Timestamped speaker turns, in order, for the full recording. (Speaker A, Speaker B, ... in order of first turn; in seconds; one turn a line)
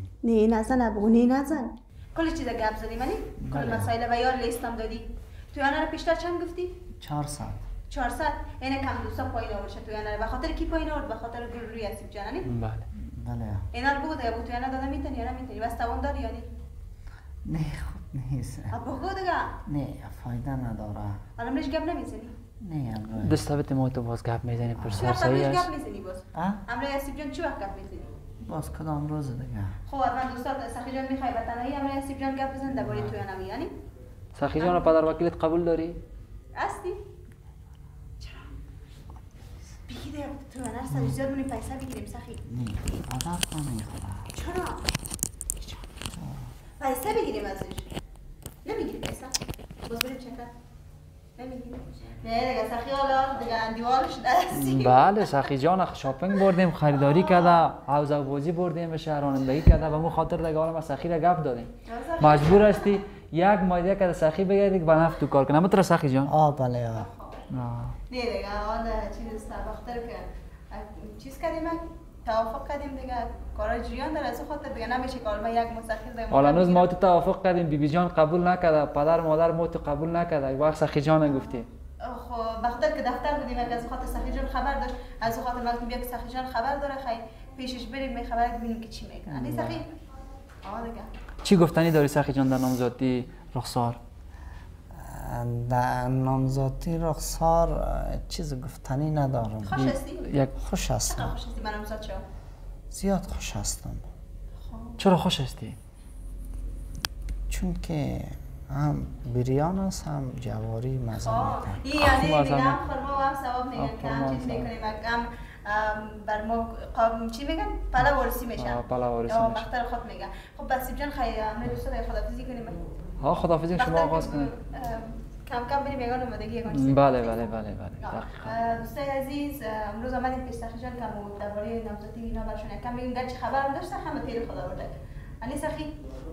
Speaker A: 0.2-6.8
Speaker B: 3.4-3.9
Speaker B: 7.0-7.7
Speaker A: 7.9-12.5
Speaker C: 12.4-12.9
Speaker B: 12.9-13.7
Speaker A: 13.7-16.5
Speaker B: 17.4-18.8
Speaker A: 18.7-19.6
Speaker B: 19.6-21.2
Speaker A: 21.4-22.4
Speaker B: 22.6-23.4
Speaker C: 23.2-25.7
Speaker B: 24.8-25.1
Speaker A: 24.9-28.1
Speaker B: 26.3-26.6
Speaker B: 28.4-29.8
Speaker A: 29.9-33.7
Speaker C: 34.4-36.0
Speaker A: 34.6-34.9
Speaker A: 36.5-37.0
Speaker A: 38.2-38.5
Speaker A: 39.9-42.4
Speaker B: 42.4-44.3
Speaker A: 44.3-44.9
Speaker B: 45.6-46.5
Speaker A: 46.8-47.9
Speaker A: 48.6-50.5
Speaker A: 51.4-55.3
Speaker C: 54.5-66.3
Speaker A: 57.0-57.6
Speaker A: 61.9-63.0
Speaker B: 66.3-67.1
Speaker A: 67.1-67.4
Speaker C: 67.5-68.0
Speaker A: 68.1-76.9
Speaker C: 76.3-81.7
Speaker A: 82.0-90.0
Speaker B: 89.3-89.8
Speaker A: 90.6-91.1
Speaker C: 91.4-94.0
Speaker B: 94.9-99.9
Speaker A: 99.6-100.3
Speaker C: 99.8-100.5
Speaker B: 100.5-101.3
Speaker A: 101.0-102.2
Speaker B: 102.9-104.1
Speaker A: 104.6-105.0
Speaker C: 105.0-105.8
Speaker B: 107.5-111.8
Speaker A: 111.2-122.9
Speaker C: 111.9-112.8
Speaker C: 113.8-114.7
Speaker C: 118.6-119.7
Speaker C: 123.2-124.5
Speaker A: 123.8-127.5
Speaker C: 126.7-128.6
Speaker A: 128.0-136.0